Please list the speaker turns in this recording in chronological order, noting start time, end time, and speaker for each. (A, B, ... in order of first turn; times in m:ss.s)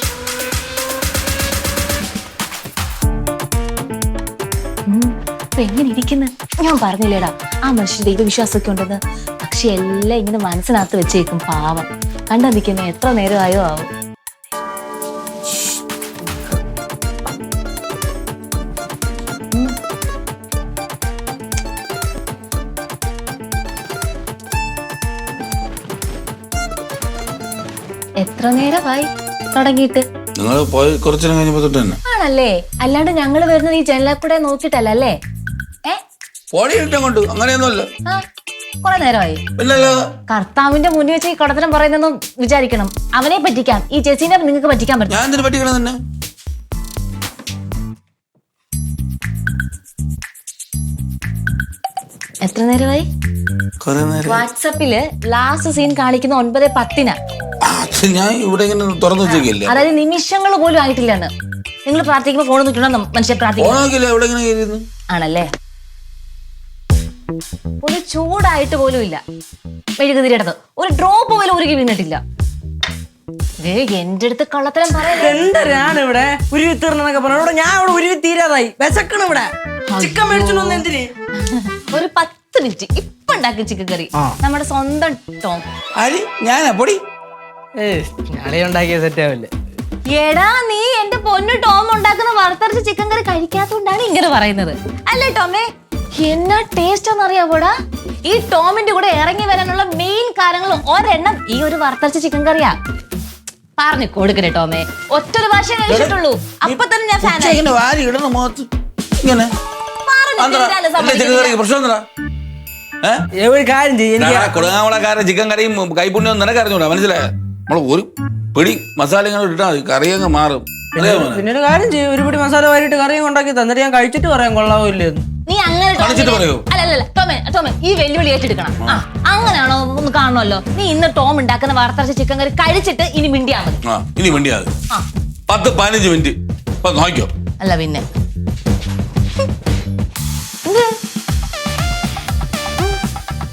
0:04.9-0:13.9 A
0:28.2-0:30.0 A
0:30.4-0:32.0 B
0:32.1-0:35.2 A
0:36.5-0:37.9 B
0:38.8-0:39.4 A
0:39.6-0:40.0 B
0:40.3-0:45.2 A
0:45.1-0:46.0 B
0:52.4-0:53.1 A
0:53.8-0:54.4 B
0:54.2-0:57.2 A
0:57.6-0:59.7 B
0:59.2-1:01.3 A
1:01.8-1:03.8 A
1:03.6-1:04.8 B
1:05.1-1:05.5 A
1:07.8-1:09.2 A
1:10.0-1:12.2 A
1:13.6-1:15.4 A
1:15.0-1:21.1 C
1:19.9-1:20.8 A
1:21.4-1:25.6 A
1:26.0-1:27.0 B
1:27.8-1:29.5 C
1:30.1-1:37.7 A
1:38.2-1:42.7 A
1:43.8-1:47.6 A
1:46.7-1:48.7 B
1:49.2-1:49.5 B
1:50.0-1:51.6 A
1:50.4-1:52.0 B
1:53.4-1:54.5 C
1:54.2-2:01.4 B
2:00.9-2:05.2 C
2:05.5-2:13.8 A
2:06.0-2:06.6 B
2:13.9-2:14.7 B
2:15.5-2:17.3 B
2:17.6-2:18.0 A
2:20.6-2:20.9 A